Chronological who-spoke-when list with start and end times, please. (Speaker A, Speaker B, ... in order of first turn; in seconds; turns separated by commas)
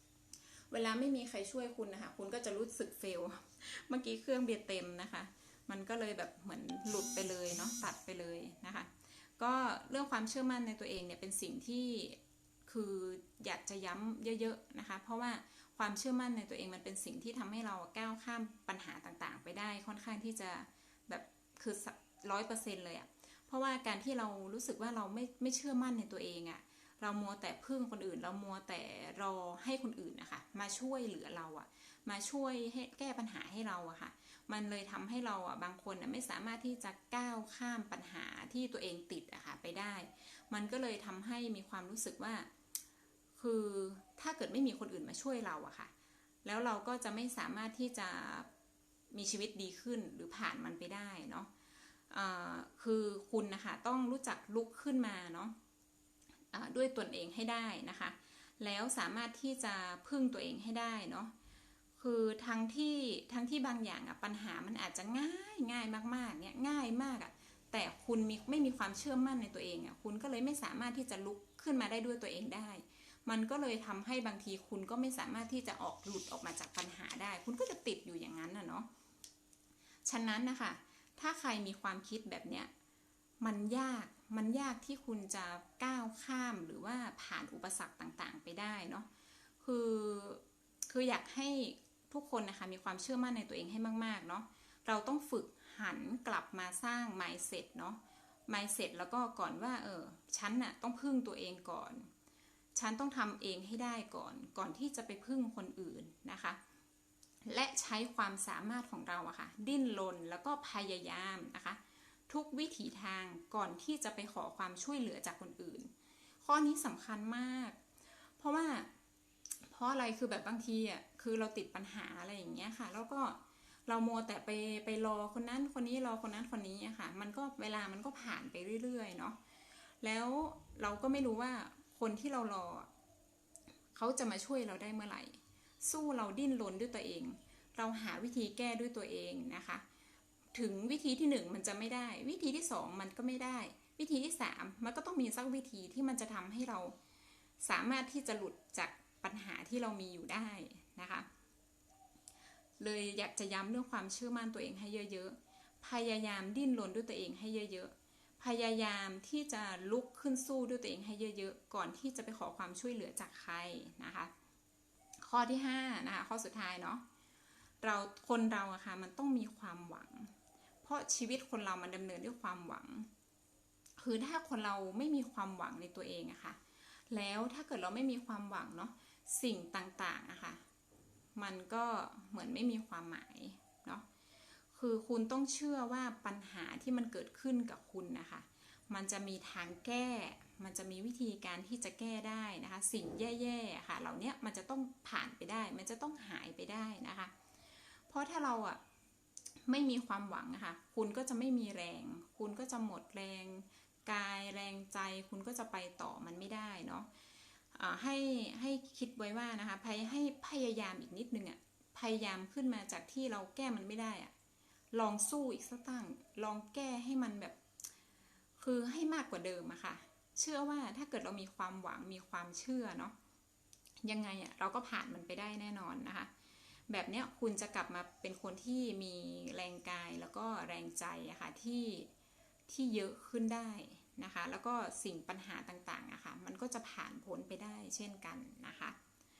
Speaker A: 0.7-42.5, Speaker A: 43.4-45.9, Speaker A: 46.4-48.5, Speaker A: 49.1-51.5, Speaker A: 52.1-55.5, Speaker A: 56.5-61.3, Speaker A: 62.0-78.9, Speaker A: 80.1-82.7, Speaker A: 83.4-89.1, Speaker A: 89.6-102.1, Speaker A: 102.8-106.6, Speaker A: 107.5-115.9, Speaker A: 116.4-117.8, Speaker A: 118.4-118.9, Speaker A: 119.7-129.4, Speaker A: 130.0-132.9, Speaker A: 133.9-139.8, Speaker A: 140.5-147.0, Speaker A: 147.6-151.3, Speaker A: 152.8-164.3, Speaker A: 165.2-167.0, Speaker A: 167.8-173.1, Speaker A: 174.0-180.6, Speaker A: 181.4-184.1, Speaker A: 184.7-197.3, Speaker A: 198.1-198.8, Speaker A: 199.7-207.1, Speaker A: 207.7-214.3, Speaker A: 214.9-217.6, Speaker A: 218.6-223.1, Speaker A: 224.0-226.3, Speaker A: 226.9-232.1, Speaker A: 232.7-239.0